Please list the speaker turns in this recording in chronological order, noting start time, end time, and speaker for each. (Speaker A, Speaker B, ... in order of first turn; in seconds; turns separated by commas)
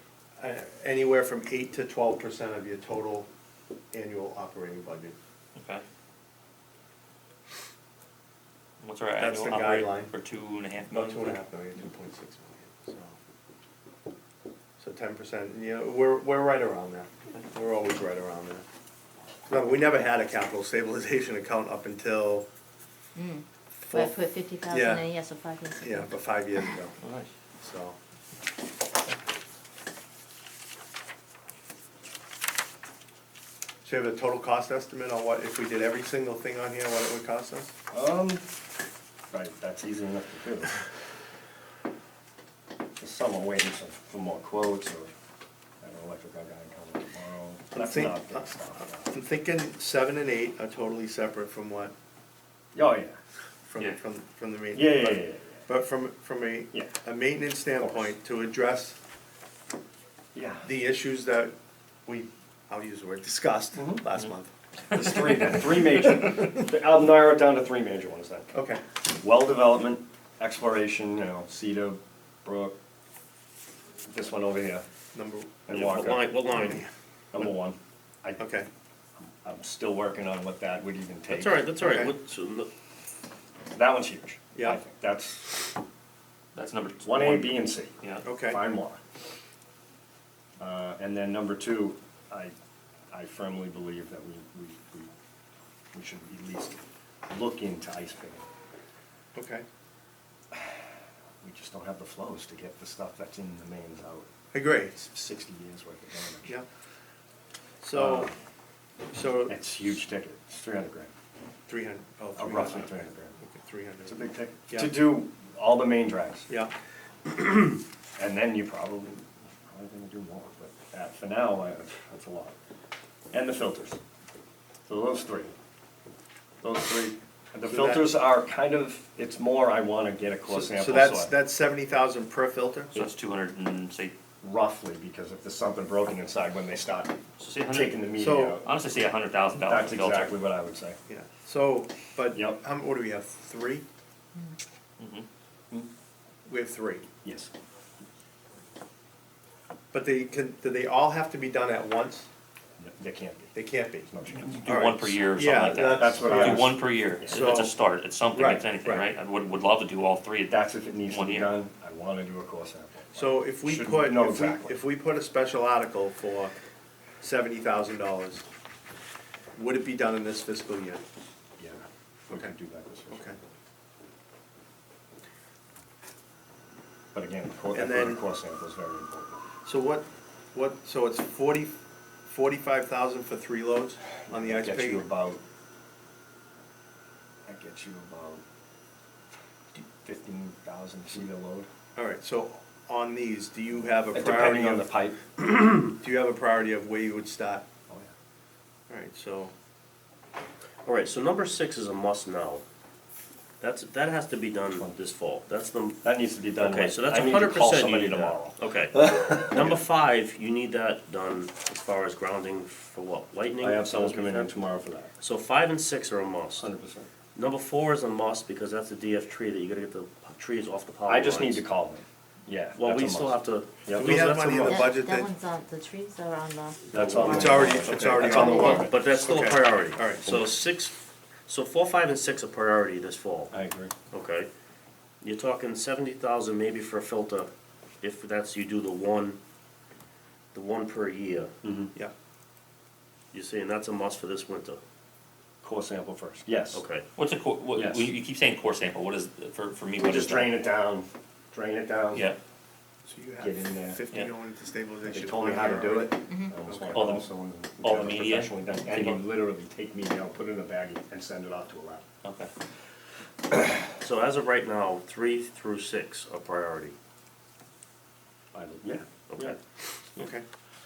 Speaker A: 0.4-3.3, Speaker A: 3.9-5.2, Speaker B: 5.6-5.8, Speaker B: 8.8-11.4, Speaker A: 9.2-10.1, Speaker A: 10.9-13.2, Speaker A: 14.8-18.6, Speaker A: 19.5-22.5, Speaker C: 23.1-26.8, Speaker A: 23.8-25.1, Speaker A: 25.8-26.9, Speaker B: 27.0-27.3, Speaker A: 27.6-28.0, Speaker A: 33.8-37.7, Speaker D: 37.9-38.4, Speaker D: 39.3-40.8, Speaker D: 43.0-45.1, Speaker D: 45.8-49.1, Speaker A: 47.7-51.9, Speaker D: 52.7-53.2, Speaker A: 53.7-59.0, Speaker D: 54.7-55.6, Speaker D: 60.4-60.7, Speaker A: 60.6-61.5, Speaker A: 62.1-65.7, Speaker D: 63.8-64.0, Speaker D: 64.9-68.5, Speaker A: 68.5-68.8, Speaker D: 69.0-72.8, Speaker D: 74.0-74.8, Speaker A: 75.1-75.6, Speaker D: 75.7-76.3, Speaker E: 75.7-76.8, Speaker A: 76.5-76.9, Speaker D: 77.3-78.4, Speaker A: 78.4-78.7, Speaker D: 79.4-81.7, Speaker E: 81.3-82.7, Speaker A: 81.8-82.1, Speaker D: 83.7-85.8, Speaker A: 84.5-84.8, Speaker B: 86.5-88.2, Speaker D: 87.0-89.0, Speaker A: 88.2-88.6, Speaker D: 90.6-92.5, Speaker D: 93.1-95.1, Speaker D: 95.9-98.5, Speaker A: 99.3-99.7, Speaker D: 101.4-104.3, Speaker A: 104.5-105.1, Speaker D: 105.1-106.5, Speaker A: 107.8-108.3, Speaker D: 107.9-108.3, Speaker A: 109.1-109.6, Speaker D: 109.5-111.1, Speaker A: 111.7-115.0, Speaker D: 112.4-113.4, Speaker D: 114.1-116.5, Speaker D: 118.2-122.6, Speaker D: 123.3-124.0, Speaker D: 124.9-125.5, Speaker D: 126.6-131.3, Speaker A: 127.6-128.2, Speaker A: 130.5-133.0, Speaker B: 132.9-134.1, Speaker D: 134.4-138.7, Speaker B: 137.4-138.0, Speaker A: 138.0-138.6, Speaker B: 138.6-140.3, Speaker D: 139.7-141.0, Speaker A: 141.1-143.8, Speaker B: 145.0-145.3, Speaker A: 146.5-147.1, Speaker D: 147.2-147.5, Speaker A: 149.9-152.3, Speaker D: 152.8-154.7, Speaker A: 153.6-154.1, Speaker B: 154.4-161.5, Speaker A: 154.7-156.7, Speaker D: 156.0-157.5, Speaker A: 157.3-157.7, Speaker A: 158.3-159.1, Speaker D: 160.5-164.8, Speaker A: 163.2-166.5, Speaker A: 167.2-168.5, Speaker A: 169.6-171.0, Speaker D: 171.6-173.4, Speaker A: 173.1-173.4, Speaker D: 177.1-179.4, Speaker A: 177.7-178.2, Speaker A: 179.7-185.1, Speaker D: 184.3-185.4, Speaker D: 187.5-188.4, Speaker D: 190.0-191.7, Speaker A: 192.0-194.9, Speaker D: 194.1-195.4, Speaker A: 196.0-197.7, Speaker A: 198.9-199.5, Speaker E: 200.8-202.6, Speaker E: 203.6-214.6, Speaker D: 206.0-209.8, Speaker D: 213.6-215.1, Speaker E: 215.2-216.7, Speaker D: 216.6-217.1, Speaker E: 217.3-221.6, Speaker D: 221.1-224.1, Speaker E: 222.8-224.8, Speaker A: 223.9-225.3, Speaker C: 224.5-228.9, Speaker D: 226.9-229.0, Speaker E: 226.9-227.5, Speaker A: 227.2-230.3, Speaker E: 228.5-233.5, Speaker D: 233.5-233.9, Speaker E: 234.1-234.5, Speaker E: 235.2-237.5, Speaker E: 238.0-239.4, Speaker E: 240.5-241.5, Speaker D: 241.6-241.9, Speaker E: 243.3-244.8, Speaker D: 245.6-246.8, Speaker E: 246.7-247.1, Speaker B: 247.2-250.5, Speaker D: 247.8-248.1, Speaker D: 250.0-252.2, Speaker B: 252.1-252.4, Speaker A: 253.0-257.1, Speaker D: 253.4-254.0, Speaker D: 255.1-262.1, Speaker B: 256.9-257.3, Speaker B: 257.8-259.2, Speaker B: 262.2-262.5, Speaker E: 263.9-266.9, Speaker D: 268.5-269.6, Speaker E: 269.3-269.6, Speaker A: 270.2-270.4